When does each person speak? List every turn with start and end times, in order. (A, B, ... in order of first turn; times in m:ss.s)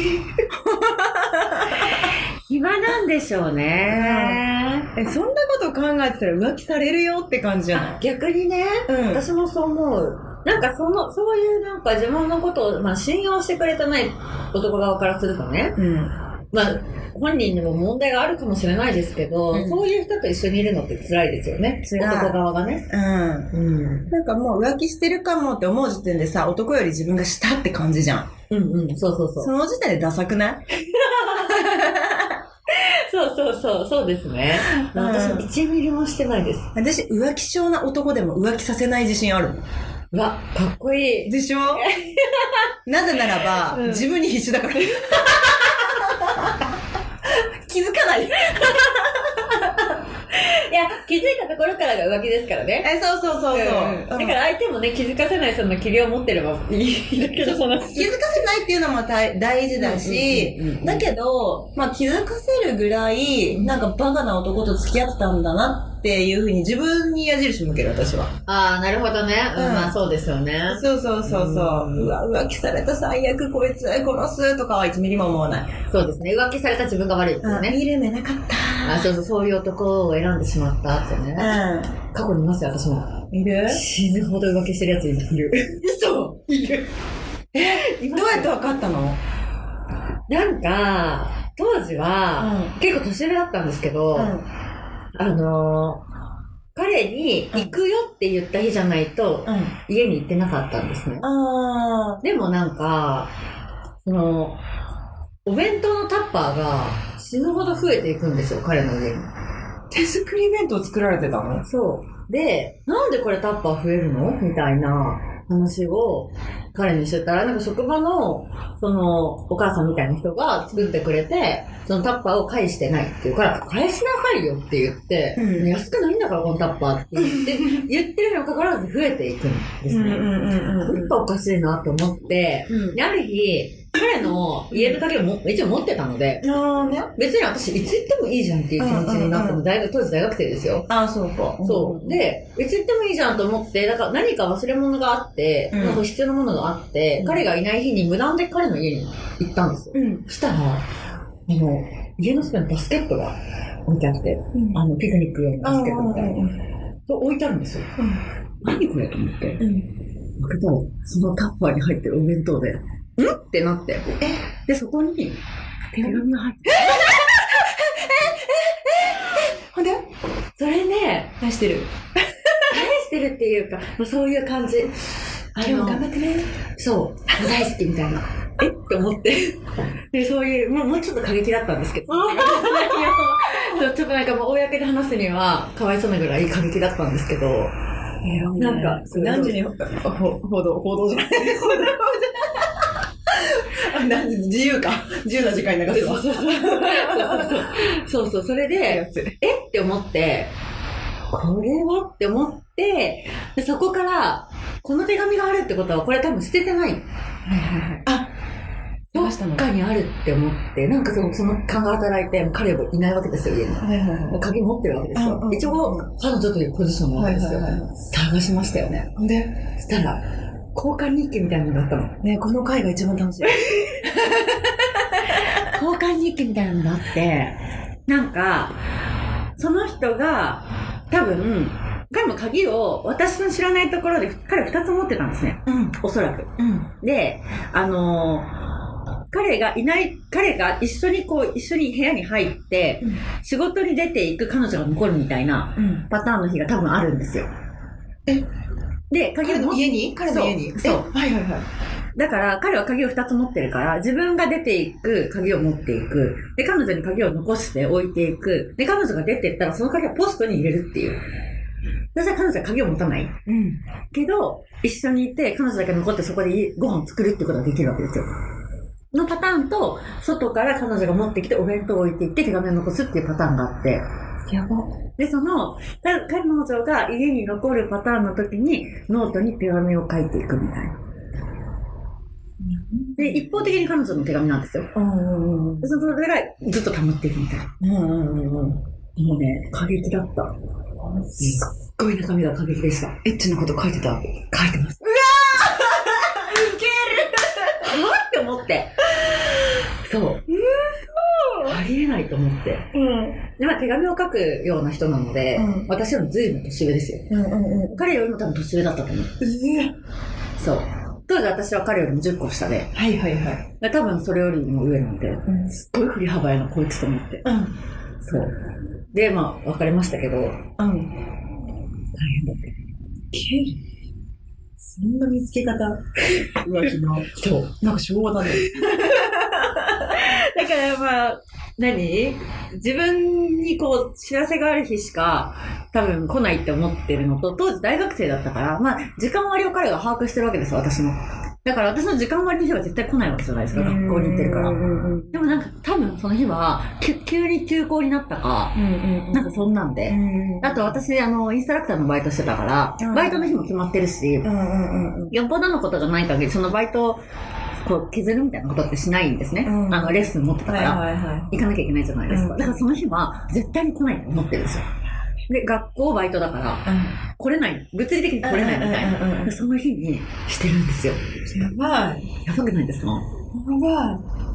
0:00.5-0:02.1 A
0:01.9-0:04.9 B
0:03.9-0:04.4 A
0:04.9-0:08.0 A
0:07.8-0:15.8 B
0:08.9-0:09.2 A
0:15.8-0:16.2 A
0:16.5-0:22.9 B
0:19.5-0:19.8 A
0:21.8-0:22.4 A
0:22.9-0:23.5 A
0:23.5-0:24.1 B
0:24.1-0:28.3 A
0:28.5-0:29.5 B
0:29.4-0:30.7 A
0:30.9-0:31.7 B
0:31.3-0:32.4 A
0:32.7-0:36.7 B
0:34.7-0:35.5 A
0:36.8-0:39.6 A
0:40.1-0:42.7 B
0:41.3-0:41.9 A
0:42.9-0:46.7 A
0:43.6-0:44.0 B
0:47.3-0:49.9 A
0:50.3-0:52.9 B
0:52.8-0:54.4 A
0:53.5-0:58.2 B
0:57.4-1:08.4 A
0:59.8-1:01.1 B
1:08.5-1:12.1 B
1:09.6-1:10.0 A
1:10.7-1:15.7 A
1:15.9-1:17.8 B
1:17.4-1:19.1 A
1:18.8-1:21.6 B
1:21.4-1:22.0 A
1:22.1-1:25.8 B
1:23.3-1:23.8 A
1:25.8-1:26.5 A
1:26.5-1:26.9 B
1:27.5-1:29.2 A
1:27.8-1:28.5 B
1:30.3-1:34.4 B
1:32.4-1:32.8 A
1:34.2-1:34.5 A
1:35.2-1:36.0 B
1:36.8-1:41.3 B
1:39.5-1:39.7 A
1:41.2-1:42.2 A
1:42.2-1:43.3 B
1:44.0-1:44.6 B
1:45.4-1:49.3 B
1:49.9-1:51.7 A
1:51.7-2:10.3 B
2:00.7-2:01.0 A
2:05.4-2:05.7 A
2:07.2-2:07.8 A
2:09.9-2:11.2 A
2:10.8-2:16.4 B
2:12.7-2:13.0 A
2:14.7-2:15.0 A
2:16.4-2:17.1 A
2:17.2-2:20.9 B
2:18.8-2:19.6 A
2:20.9-2:22.2 A
2:21.6-2:30.9 B
2:25.7-2:26.0 A
2:27.2-2:27.5 A
2:29.9-2:30.3 A
2:31.5-2:36.4 B
2:34.5-2:34.8 A
2:35.6-2:36.6 A
2:37.1-2:38.0 B
2:38.6-2:39.6 B
2:39.6-2:39.9 A
2:40.4-2:45.4 B
2:45.9-2:46.9 B
2:46.0-2:50.1 A
2:50.6-2:51.4 B
2:51.4-2:52.6 A
2:52.7-2:56.1 B
2:55.6-2:56.5 A
2:56.7-3:07.8 B
3:02.1-3:03.8 A
3:08.2-3:17.8 A
3:08.6-3:09.6 B
3:15.9-3:20.5 B
3:18.8-3:19.4 A
3:21.3-3:27.0 B
3:27.5-3:28.3 A
3:29.1-3:29.7 A
3:29.1-3:39.1 B
3:33.8-3:34.4 A
3:35.2-3:36.1 A
3:37.2-3:37.9 A
3:39.2-3:39.6 A
3:39.8-3:42.2 B
3:42.2-3:45.6 A
3:43.5-3:44.0 B
3:45.4-3:48.8 B
3:49.6-3:58.5 B
3:55.7-3:56.0 A
3:56.6-3:56.9 A
3:59.3-4:07.5 B
4:05.8-4:06.1 A
4:09.1-4:11.1 B
4:09.4-4:11.6 A
4:12.2-4:21.2 B
4:22.1-4:23.4 B
4:23.5-4:23.8 A
4:24.1-4:28.3 B
4:29.1-4:34.1 B
4:34.5-4:34.9 A
4:35.2-4:41.0 B
4:42.6-4:43.5 A
4:43.2-4:44.9 B
4:44.9-4:45.9 A
4:45.8-4:47.7 B
4:47.8-4:48.8 A
4:49.2-4:50.6 B
4:51.0-4:51.7 A
4:51.4-4:53.2 B
4:53.2-4:57.9 A
4:54.5-4:55.1 B
4:57.8-4:59.0 B
5:00.0-5:00.5 B
5:00.5-5:01.8 A
5:01.6-5:02.9 B
5:02.9-5:03.4 A
5:03.6-5:07.3 B
5:05.6-5:05.9 A
5:07.3-5:08.0 A
5:07.9-5:09.4 B
5:09.4-5:09.9 A
5:10.6-5:13.0 B
5:12.9-5:13.7 A
5:13.8-5:17.5 B
5:17.4-5:17.7 A
5:18.2-5:18.6 B
5:19.1-5:20.7 B
5:20.8-5:21.1 A
5:22.2-5:22.8 B
5:23.3-5:23.8 A
5:24.8-5:30.2 A
5:27.3-5:27.8 B
5:28.9-5:29.3 B
5:30.1-5:44.8 B
5:43.7-5:45.5 A
5:45.3-5:48.8 B
5:48.8-5:49.5 A
5:49.3-5:54.5 B
5:50.1-5:51.0 A
5:53.0-5:53.5 A
5:54.4-5:55.3 A
5:55.3-5:57.2 B
5:57.8-6:04.9 B
5:59.6-6:01.5 A
6:02.3-6:02.8 A
6:05.5-6:11.2 B
6:06.8-6:07.2 A
6:08.4-6:09.5 A
6:11.5-6:12.3 A
6:12.4-6:13.3 B
6:13.5-6:14.2 A